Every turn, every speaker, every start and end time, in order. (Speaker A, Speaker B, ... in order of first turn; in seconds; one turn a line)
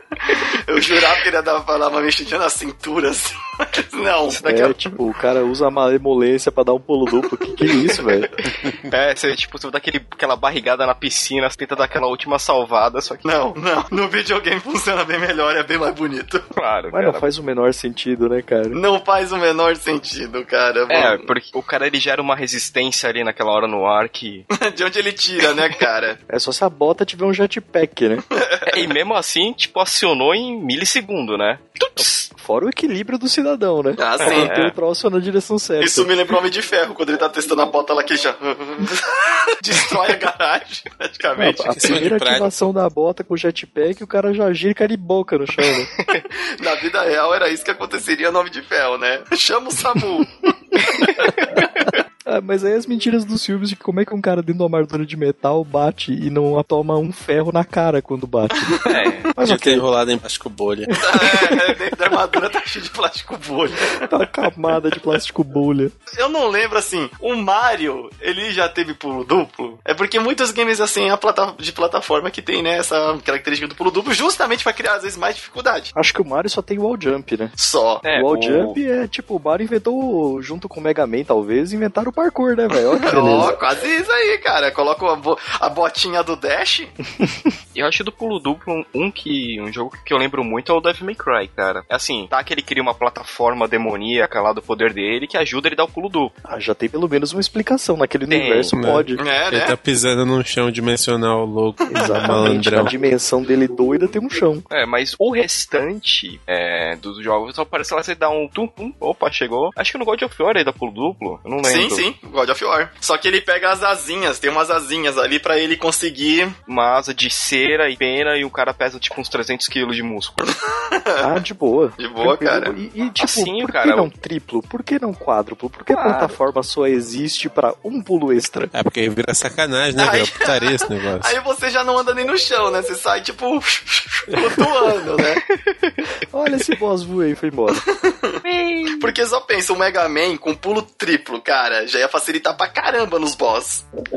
Speaker A: 0.3-4.7
Speaker B: 4.3-4.7
Speaker C: 4.5-8.3
Speaker B: 8.9-13.3
Speaker A: 13.2-16.5
Speaker B: 16.6-17.2
Speaker C: 16.9-18.8
Speaker A: 18.7-21.2
Speaker B: 20.9-24.5
Speaker A: 24.5-26.2
Speaker C: 26.3-28.2
Speaker A: 28.3-28.9
Speaker B: 28.7-32.3
Speaker C: 32.0-36.1
Speaker A: 34.0-34.5
Speaker B: 34.2-34.7
Speaker A: 35.8-42.0
Speaker C: 41.4-45.9
Speaker D: 41.8-42.5
Speaker B: 46.0-46.2
Speaker A: 46.3-50.3
Speaker B: 50.8-51.9
Speaker A: 50.9-51.5
Speaker C: 52.3-59.9
Speaker A: 58.6-59.1
Speaker B: 58.9-59.3
Speaker D: 59.4-61.0
Speaker C: 60.9-61.7
Speaker A: 60.9-64.1
Speaker C: 64.1-65.9
Speaker A: 66.1-75.9
Speaker C: 76.0-77.5
Speaker A: 77.6-78.0
Speaker B: 78.0-78.8
Speaker C: 78.1-83.5
Speaker A: 82.9-86.9
Speaker B: 87.7-96.3
Speaker C: 96.5-99.2
Speaker B: 98.3-98.7
Speaker D: 98.7-102.9
Speaker A: 99.2-99.8
Speaker C: 101.9-104.7
Speaker A: 102.0-102.5
Speaker B: 104.7-112.1
Speaker A: 111.6-116.5
Speaker B: 116.7-120.5
Speaker A: 120.5-121.3
Speaker C: 121.2-128.7
Speaker A: 122.0-122.8
Speaker B: 123.2-124.1
Speaker B: 125.9-126.4
Speaker D: 128.7-131.3
Speaker A: 130.0-135.4
Speaker B: 135.5-135.9
Speaker C: 136.3-137.8
Speaker A: 137.8-138.4
Speaker B: 138.4-139.1
Speaker A: 139.0-143.9